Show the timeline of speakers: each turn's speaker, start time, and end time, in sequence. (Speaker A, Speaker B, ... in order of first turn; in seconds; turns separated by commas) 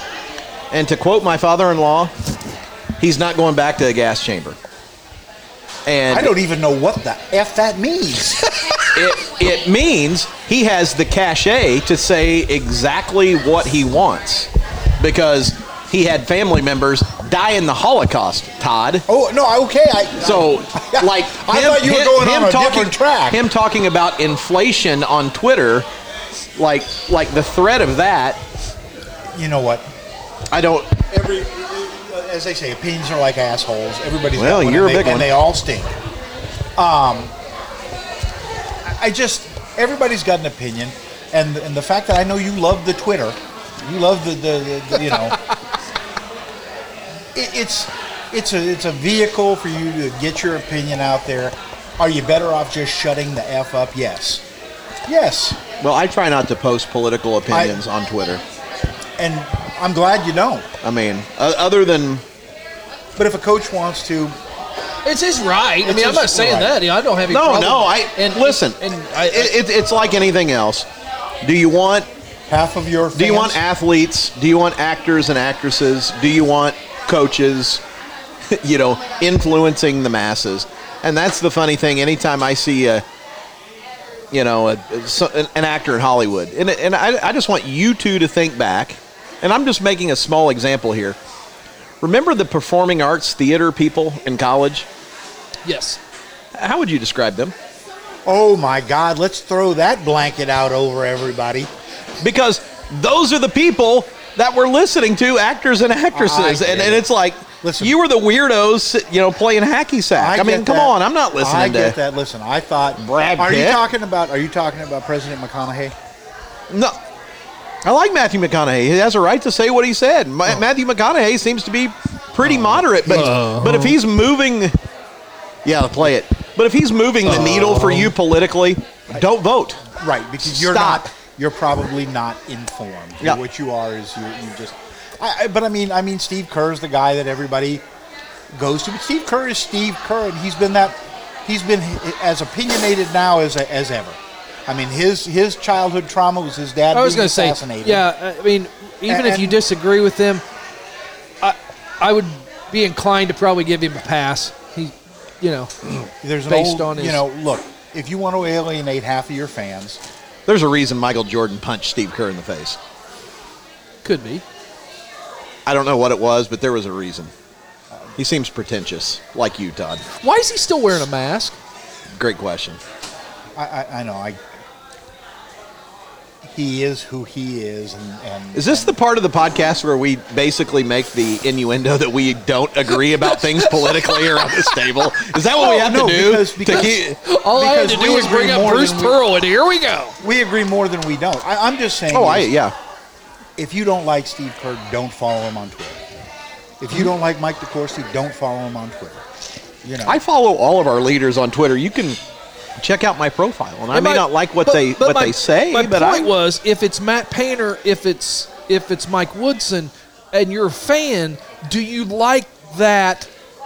Speaker A: 0.7-2.1, Speaker A: 3.0-4.6, Speaker A: 5.8-6.3, Speaker B: 6.1-8.7, Speaker A: 8.9-19.0, Speaker B: 19.1-23.4, Speaker A: 20.2-25.9, Speaker A: 26.6-28.4, Speaker B: 29.3-29.9, Speaker A: 30.5-31.0, Speaker B: 31.0-35.9, Speaker A: 34.4-35.3, Speaker B: 36.8-37.3, Speaker B: 38.8-45.4, Speaker B: 47.3-54.4, Speaker B: 55.0-55.6, Speaker A: 55.8-58.4, Speaker B: 57.5-57.8, Speaker B: 59.2-60.7, Speaker A: 60.8-62.2, Speaker B: 63.1-64.4, Speaker C: 65.0-69.5, Speaker B: 65.8-66.8, Speaker A: 67.3-70.9, Speaker A: 71.4-72.1, Speaker B: 72.5-73.6, Speaker A: 73.1-77.8, Speaker A: 78.5-83.0, Speaker A: 84.3-91.2, Speaker A: 92.0-94.9, Speaker C: 95.6-96.0, Speaker A: 96.5-97.5, Speaker B: 98.2-101.7, Speaker A: 102.2-112.0, Speaker B: 106.1-107.1, Speaker B: 107.6-108.0, Speaker B: 110.1-115.9, Speaker A: 113.0-113.8, Speaker A: 116.7-116.9, Speaker A: 117.8-124.8, Speaker B: 122.4-123.3, Speaker C: 123.0-124.0, Speaker A: 125.6-129.9, Speaker C: 127.3-128.1, Speaker B: 127.3-127.9, Speaker B: 129.9-137.8, Speaker A: 130.4-131.1, Speaker B: 138.5-148.1, Speaker C: 146.9-150.4, Speaker B: 149.1-149.6, Speaker C: 151.4-157.2, Speaker B: 156.2-160.0, Speaker A: 160.5-162.8, Speaker C: 164.0-164.4, Speaker A: 165.7-167.3, Speaker A: 168.2-170.0, Speaker C: 170.2-171.6, Speaker A: 172.1-172.8, Speaker B: 173.5-174.4, Speaker B: 176.4-178.9, Speaker A: 178.5-187.2, Speaker C: 183.2-184.8, Speaker B: 185.6-189.2, Speaker C: 186.7-190.1, Speaker B: 190.2-192.5, Speaker A: 192.1-192.7, Speaker B: 193.6-196.0, Speaker B: 196.8-199.2, Speaker B: 199.8-200.2, Speaker A: 200.1-202.2, Speaker A: 202.8-206.3, Speaker C: 203.9-213.3